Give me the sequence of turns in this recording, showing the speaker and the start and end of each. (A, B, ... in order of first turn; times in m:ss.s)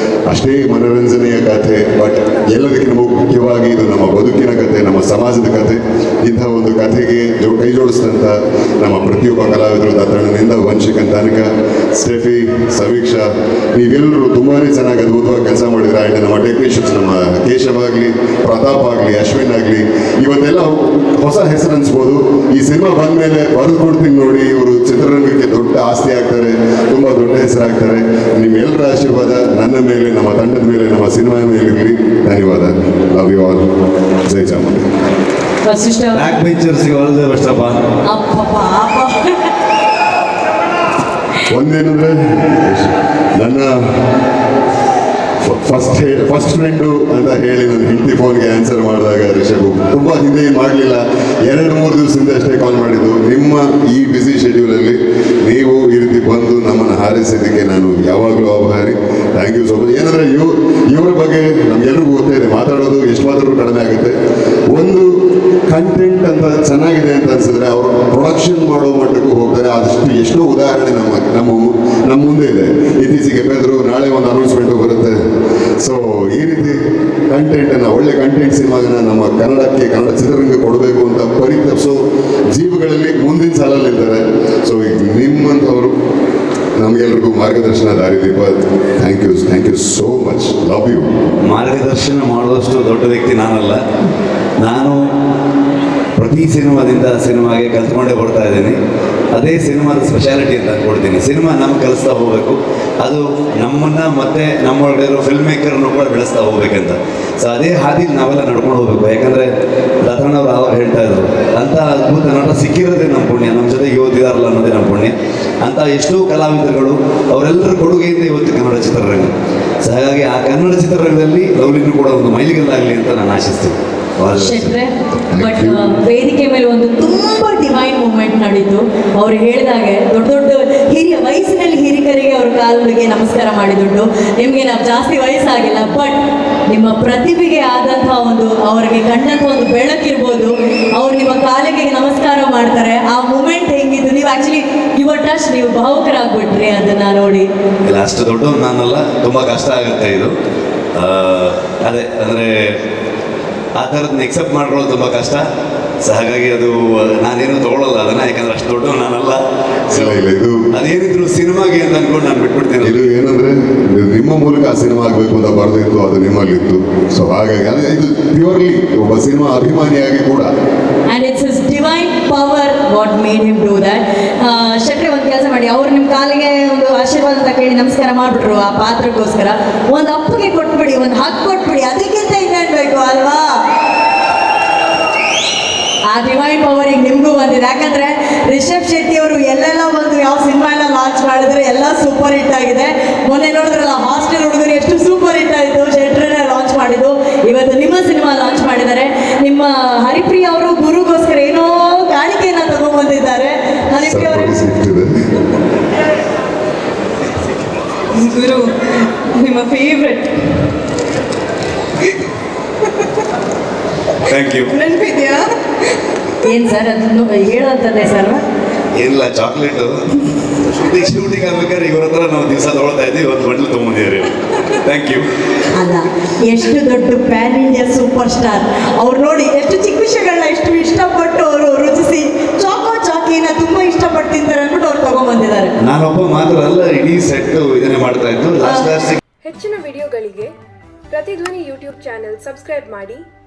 0:00.3-0:33.6 A
0:34.2-0:34.8 A
0:35.6-0:36.3 B
0:36.1-0:37.8 C
0:38.0-0:39.5 B
0:41.4-0:43.8 A
0:45.4-1:04.2 A
1:04.7-1:05.1 A
1:05.7-1:15.2 A
1:15.8-1:26.0 A
1:26.8-1:31.1 A
1:31.4-1:33.8 C
1:34.6-1:35.0 C
1:36.2-1:38.8 C
1:39.3-1:49.5 C
1:50.0-2:04.7 C
2:04.3-2:16.2 B
2:05.3-2:05.8 A
2:16.7-2:27.5 B
2:27.8-2:30.3 C
2:30.9-2:32.8 C
2:33.8-2:35.4 C
2:36.0-2:43.1 C
2:39.9-2:40.6 A
2:42.8-2:50.5 A
2:51.1-3:03.6 B
3:06.0-3:24.5 B
3:24.0-3:25.1 A
3:28.1-3:30.4 D
3:29.4-3:30.2 B
3:34.2-3:34.8 C
3:34.8-3:35.6 D
3:36.4-3:38.4 B
3:38.9-3:45.3 C
3:45.7-3:55.7 B
3:55.8-3:59.2 C
3:59.4-4:00.5 E
4:01.1-4:03.2 E